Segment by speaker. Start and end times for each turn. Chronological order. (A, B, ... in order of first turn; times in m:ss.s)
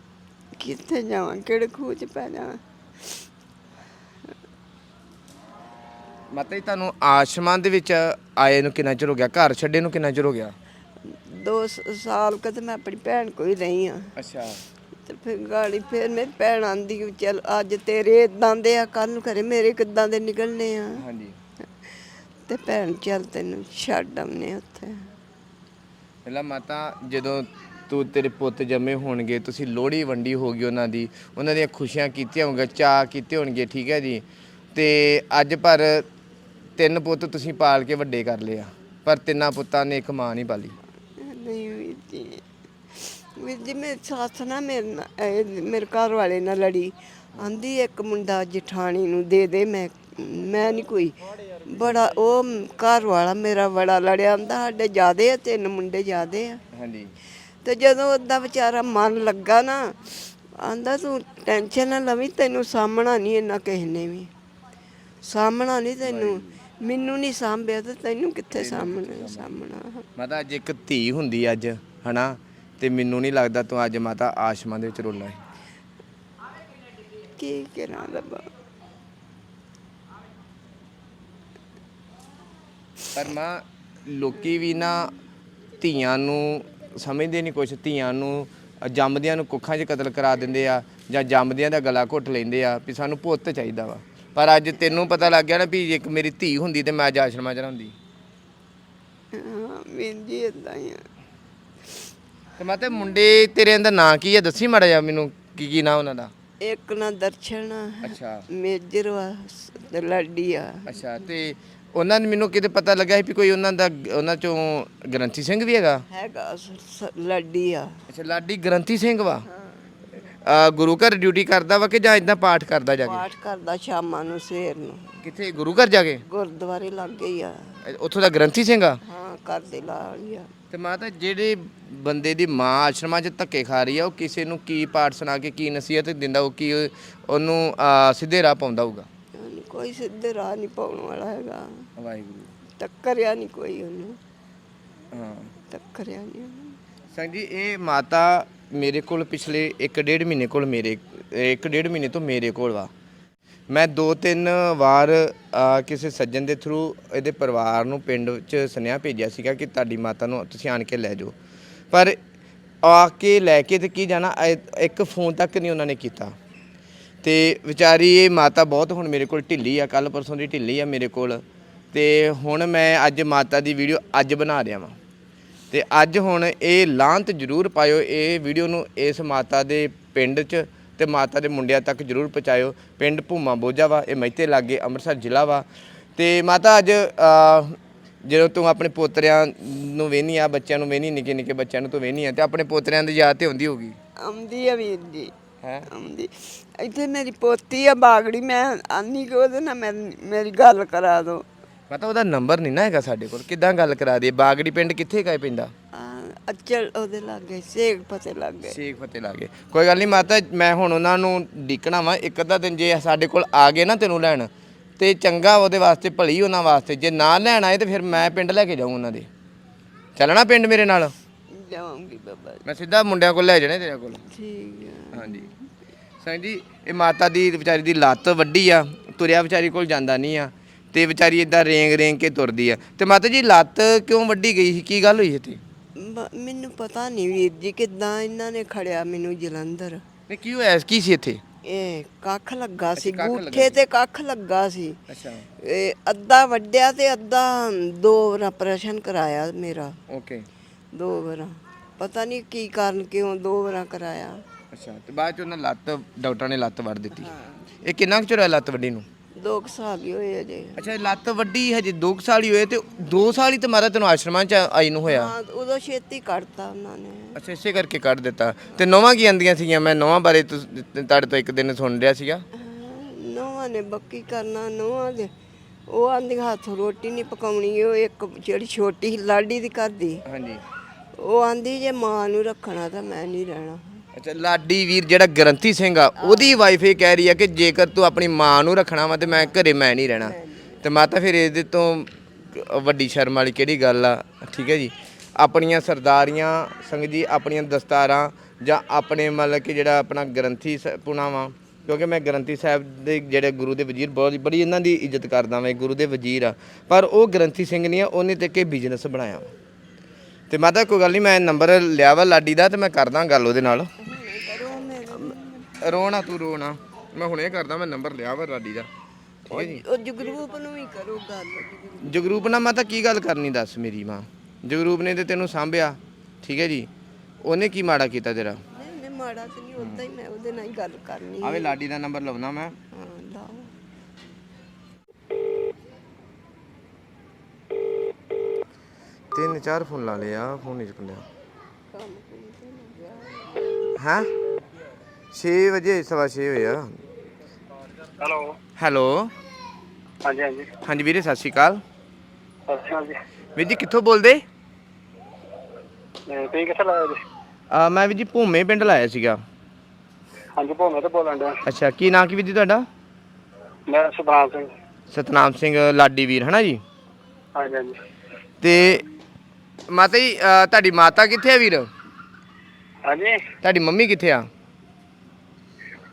0:00.6-0:03.2 A
0:06.3-0:10.5 B
0:11.0-0:14.1 A
0:14.2-0:14.6 B
0:15.0-0:21.0 A
0:21.0-0:21.4 B
0:22.4-0:25.1 A
0:26.2-0:36.0 B
0:36.8-0:40.7 B
0:41.2-0:42.4 A
0:43.0-0:56.6 A
0:56.7-0:57.1 B
0:57.6-1:04.3 A
1:05.2-1:10.0 A
1:06.0-1:06.6 B
1:08.5-1:09.5 B
1:10.2-1:15.4 B
1:17.4-1:18.5 A
1:23.1-1:25.1 B
1:25.8-1:38.0 B
1:39.3-1:41.0 A
1:42.6-1:46.3 B
1:46.6-1:50.9 A
1:48.0-1:48.4 B
1:50.9-1:56.0 B
1:56.1-1:58.0 A
1:58.1-1:59.4 B
1:59.5-1:59.9 A
2:00.4-2:03.2 B
2:03.0-2:05.2 A
2:05.2-2:06.2 B
2:06.3-2:07.8 A
2:07.8-2:09.0 B
2:09.0-2:10.5 A
2:10.7-2:19.1 B
2:19.4-2:21.8 A
2:22.0-2:22.5 B
2:22.8-2:24.2 A
2:25.1-2:25.5 B
2:25.7-2:26.8 A
2:27.1-2:32.9 B
2:33.7-2:41.3 B
2:41.9-2:42.2 B
2:42.8-2:46.3 B
2:47.2-2:55.0 B
2:55.7-3:14.0 B
3:14.2-3:15.3 A
3:15.6-3:15.9 B
3:15.9-3:21.4 A
3:21.9-3:25.7 B
3:25.9-3:28.8 A
3:28.6-3:39.3 B
3:40.2-3:41.1 B
3:41.5-3:42.6 A
3:42.6-3:44.2 B
3:44.3-3:45.6 A
3:45.1-3:45.5 B
3:46.2-3:55.6 B
3:56.0-4:00.0 A
4:00.3-4:01.4 B
4:01.6-4:05.0 A
4:03.0-4:03.8 B
4:05.1-4:05.5 B
4:05.6-4:10.0 A
4:10.1-4:10.5 B
4:10.9-4:14.4 A
4:14.7-4:17.3 B
4:17.2-4:17.6 A
4:17.8-4:19.0 B
4:19.4-4:20.9 A
4:20.8-4:25.3 B
4:25.1-4:27.4 A
4:27.3-4:32.4 B
4:32.6-4:35.3 A
4:35.9-4:40.2 A
4:40.2-4:40.6 B
4:41.2-4:44.0 A
4:44.1-5:09.5 B
4:46.2-4:46.6 A
4:50.2-4:50.8 A
5:10.5-5:13.9 B
5:14.0-5:16.2 A
5:15.8-5:18.9 B
5:19.5-5:19.8 B
5:19.5-5:22.2 A
5:22.0-5:26.9 B
5:27.4-5:28.6 B
5:28.7-5:31.8 A
5:29.8-5:30.0 B
5:31.4-5:32.8 B
5:32.9-5:33.7 A
5:39.3-5:41.2 B
5:41.9-5:43.8 A
5:44.0-5:44.3 B
5:45.3-5:47.0 B
5:48.2-5:48.6 C
5:48.8-5:49.3 B
5:50.2-5:50.7 C
5:50.8-5:51.8 B
5:52.7-5:53.2 C
5:53.6-5:54.4 B
5:56.3-5:57.2 C
5:57.7-5:59.4 B
6:00.6-6:01.6 C
6:01.6-6:02.8 B
6:03.9-6:04.7 C
6:05.1-6:06.8 B
6:07.5-6:08.0 C
6:08.6-6:09.0 B
6:09.9-6:11.9 B
6:13.1-6:13.4 C
6:13.6-6:14.5 B